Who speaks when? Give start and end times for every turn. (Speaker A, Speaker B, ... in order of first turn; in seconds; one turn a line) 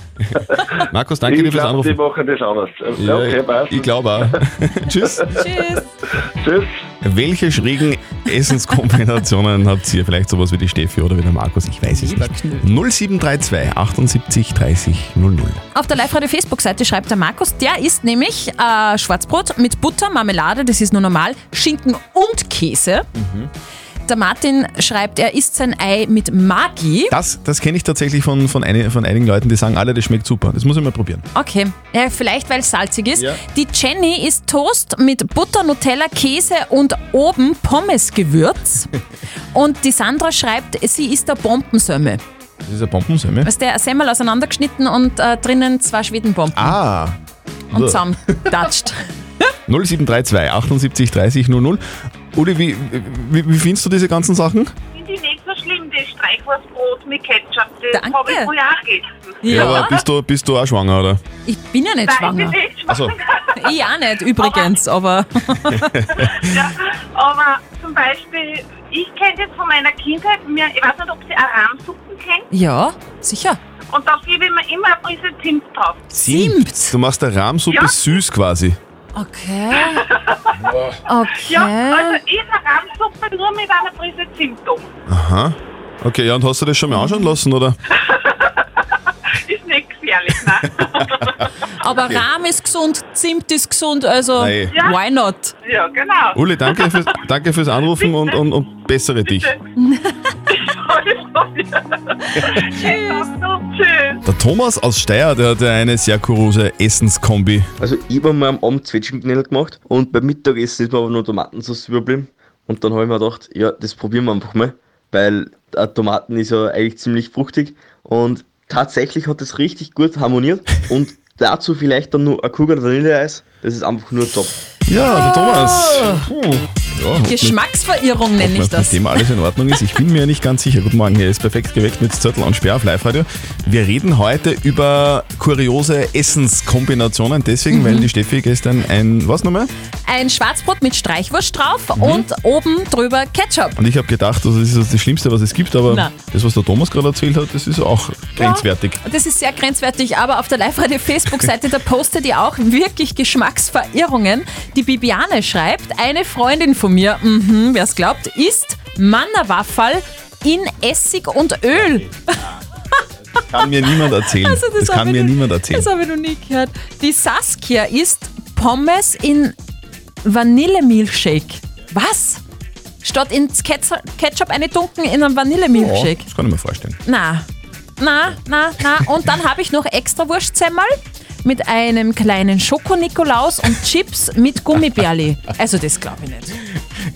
Speaker A: 0.2-2.0
Speaker B: 1.3-4.3
Speaker A: 2.9-5.4
Speaker C: 5.3-5.9
Speaker B: 6.4-6.8
Speaker A: 7.0-15.6
Speaker C: 11.9-12.7
Speaker C: 15.7-23.1
Speaker A: 23.1-23.5
Speaker C: 24.1-27.2
Speaker A: 27.1-31.2
Speaker C: 31.3-38.9
Speaker C: 39.5-42.2
Speaker A: 42.6-43.5
Speaker C: 43.4-46.8
Speaker A: 46.6-47.2
Speaker C: 47.7-49.1
Speaker A: 47.7-48.5
Speaker A: 49.7-54.7
Speaker D: 54.9-59.5
Speaker C: 57.9-58.5
Speaker C: 59.4-60.0
Speaker A: 59.5-61.2
Speaker C: 61.5-62.6
Speaker D: 62.0-63.8
Speaker A: 62.9-63.1
Speaker C: 63.5-66.1
Speaker D: 64.4-64.7
Speaker D: 66.2-72.5
Speaker C: 72.5-73.6
Speaker D: 73.9-76.1
Speaker C: 76.1-77.0
Speaker A: 76.2-78.8
Speaker D: 77.7-78.1
Speaker C: 79.2-80.0
Speaker D: 80.0-80.5
Speaker C: 81.1-82.2
Speaker D: 81.4-84.9
Speaker A: 85.1-87.8
Speaker D: 87.9-88.5
Speaker D: 89.5-91.4
Speaker C: 91.8-95.5
Speaker A: 91.9-92.2
Speaker A: 94.3-94.8
Speaker D: 94.7-95.0
Speaker D: 95.6-97.1
Speaker A: 96.3-99.5
Speaker D: 97.9-98.4
Speaker D: 99.2-99.6
Speaker C: 99.8-100.0
Speaker D: 100.5-104.2
Speaker C: 102.4-103.3
Speaker A: 104.2-107.7
Speaker E: 107.8-124.5
Speaker A: 124.9-127.6
Speaker C: 125.1-126.3
Speaker C: 127.2-129.2
Speaker A: 128.4-139.7
Speaker C: 137.7-138.1
Speaker C: 140.1-143.8
Speaker A: 142.0-142.3
Speaker A: 143.8-149.0
Speaker C: 145.9-146.1
Speaker C: 148.4-162.4
Speaker A: 163.3-165.9
Speaker C: 163.9-169.6
Speaker C: 170.2-172.4
Speaker C: 173.0-176.3
Speaker A: 175.7-177.0
Speaker C: 177.1-177.5
Speaker C: 178.0-186.6